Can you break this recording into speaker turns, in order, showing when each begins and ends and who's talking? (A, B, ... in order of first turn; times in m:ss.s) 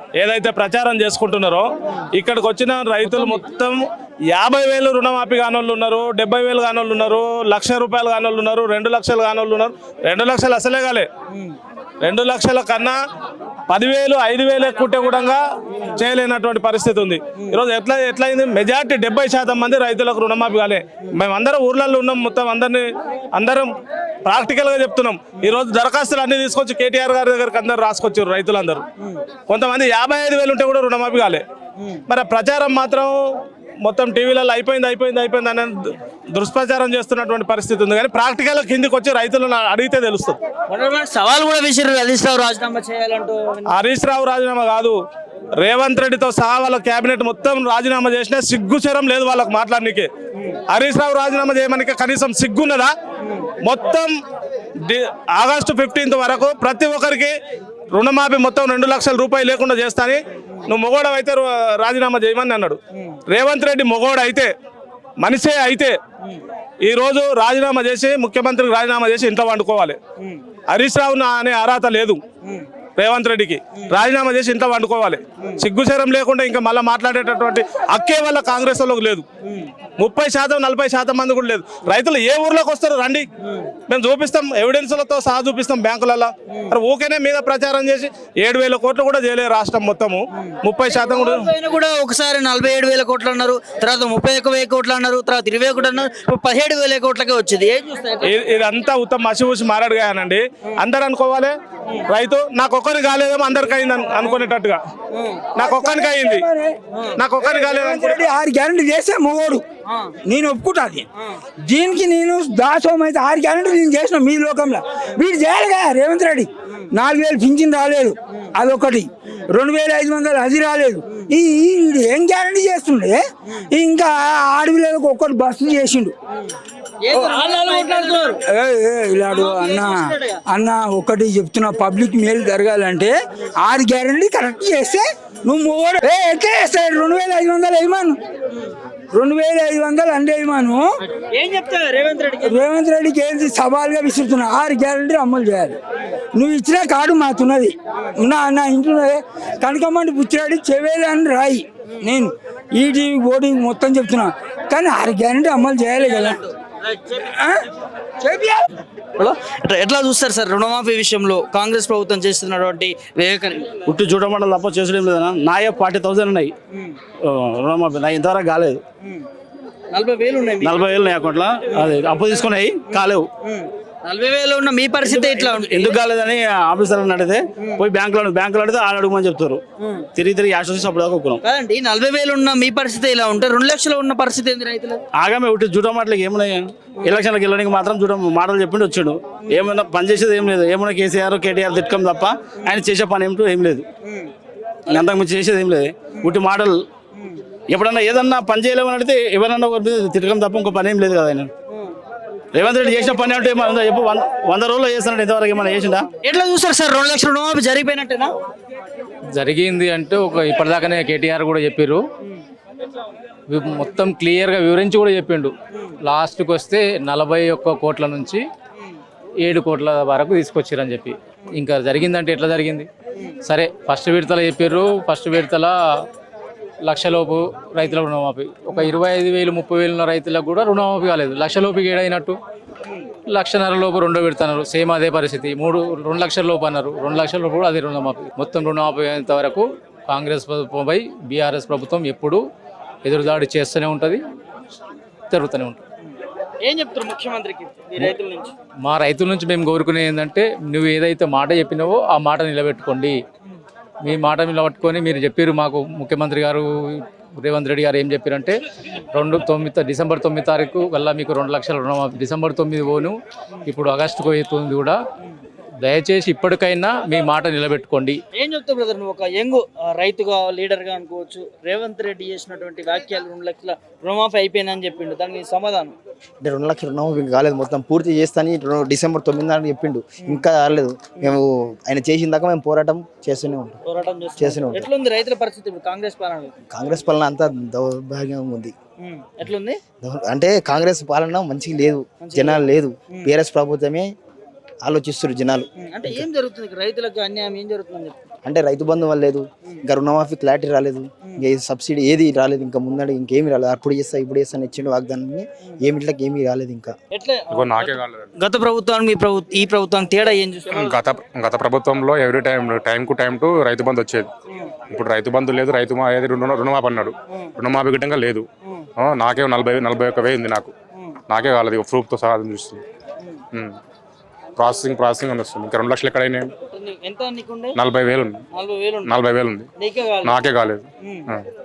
0:00.2-0:11.1 A
0:03.0-0:03.4 B
0:12.0-0:13.0 A
0:13.7-0:15.4 A
0:16.0-0:23.7 A
0:24.2-0:28.8 A
0:29.5-0:31.4 A
0:32.1-0:33.2 A
0:33.8-0:40.4 A
0:40.7-0:43.8 B
0:43.7-0:45.0 A
0:45.6-0:50.1 A
0:50.7-0:52.9 A
0:53.6-0:54.1 A
0:54.9-0:57.4 A
0:57.9-1:04.5 A
1:05.2-1:06.0 A
1:06.8-1:10.0 A
1:10.7-1:12.2 A
1:13.0-1:19.3 A
1:20.0-1:23.3 A
1:23.9-1:31.4 A
1:30.9-1:38.4 B
1:38.2-1:41.6 A
1:42.1-1:44.8 A
1:45.2-1:45.5 B
1:45.6-1:46.8 C
1:45.6-1:46.4 A
1:47.2-1:48.2 A
1:47.4-1:49.6 C
1:49.9-1:50.1 B
1:50.3-1:51.1 C
1:51.7-2:06.2 C
2:07.0-2:08.4 B
2:07.1-2:18.2 C
2:09.3-2:10.4 B
2:19.1-2:20.9 C
2:21.1-2:22.6 B
2:22.4-2:25.8 C
2:26.4-2:36.5 C
2:37.1-2:37.6 C
2:38.2-2:38.7 C
2:39.2-2:43.7 B
2:43.9-2:46.5 D
2:46.7-2:47.0 B
2:47.2-2:48.8 D
2:49.9-2:50.8 B
2:50.6-2:53.3 D
2:53.4-2:56.0 B
2:55.0-2:59.6 D
2:59.8-3:00.1 B
3:00.2-3:01.4 D
3:01.4-3:05.0 B
3:05.1-3:13.9 D
3:14.9-3:16.8 D
3:17.7-3:21.5 D
3:22.5-3:26.1 D
3:26.2-3:28.3 B
3:29.3-3:32.0 E
3:33.5-3:38.4 E
3:39.4-3:42.9 E
3:43.5-3:45.7 E
3:46.8-3:52.4 E
3:53.3-4:02.4 E
4:03.0-4:04.2 E
4:05.3-4:05.8 E
4:06.6-4:08.5 B
4:08.8-4:13.2 E
4:14.0-4:18.6 E
4:19.1-4:25.0 E
4:25.8-4:28.2 E
4:28.3-4:36.0 B
4:36.4-4:43.8 F
4:43.8-4:46.5 B
4:44.4-4:44.9 F
4:46.7-4:48.7 F
4:49.0-4:49.8 B
4:50.0-4:54.1 F
4:52.2-4:53.3 B
4:54.8-4:56.3 F
4:55.8-4:58.2 B
4:58.4-5:07.0 F
5:07.1-5:11.0 B
5:07.5-5:08.3 G
5:10.7-5:14.3 G
5:14.9-5:18.5 G
5:19.0-5:20.7 G
5:21.3-5:22.8 G
5:23.5-5:23.8 G
5:24.6-5:26.5 G
5:26.7-5:27.8 B
5:27.8-5:28.4 G
5:28.5-5:29.2 B
5:29.0-5:29.7 G
5:29.8-5:30.5 B
5:30.2-5:31.5 G
5:31.0-5:31.3 B